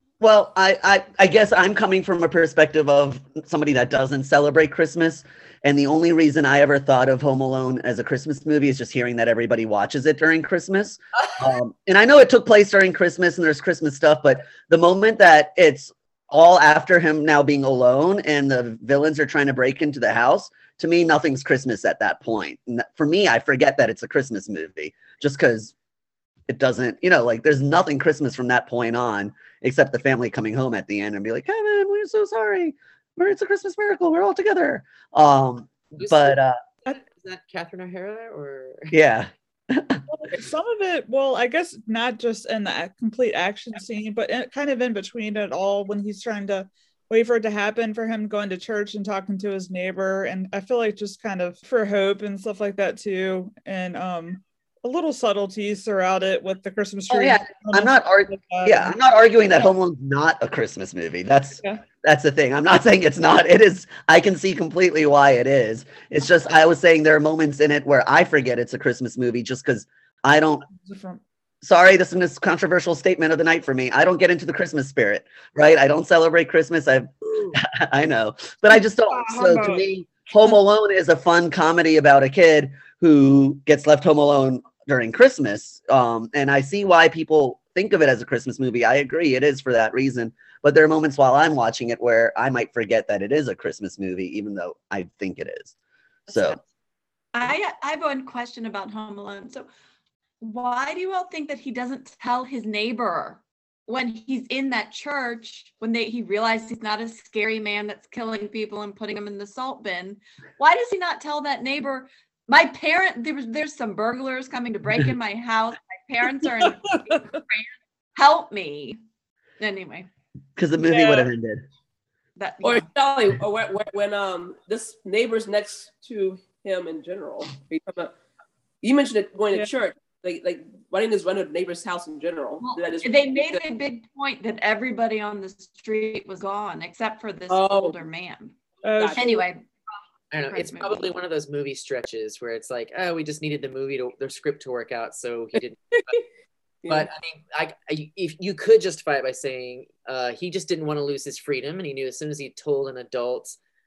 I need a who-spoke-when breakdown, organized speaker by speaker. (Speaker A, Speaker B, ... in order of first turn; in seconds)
Speaker A: 0.2-25.7, 26.5-36.6, 38.9-40.0, 57.1-70.7, 71.6-95.7, 96.3-96.6, 120.6-121.7
Speaker B: 35.9-39.0, 140.3-146.2, 146.9-153.6
Speaker C: 40.1-58.9, 70.7-71.2, 78.7-79.8, 116.4-117.4, 120.8-121.3, 138.8-139.2
Speaker D: 96.3-96.6, 97.3-99.7, 100.4-119.0, 119.6-120.1, 122.4-122.9, 132.6-138.6, 139.1-140.0, 140.5-141.1
Speaker E: 122.6-128.1, 128.8-133.6, 137.5-138.0, 138.9-139.4, 145.9-146.2, 146.8-147.1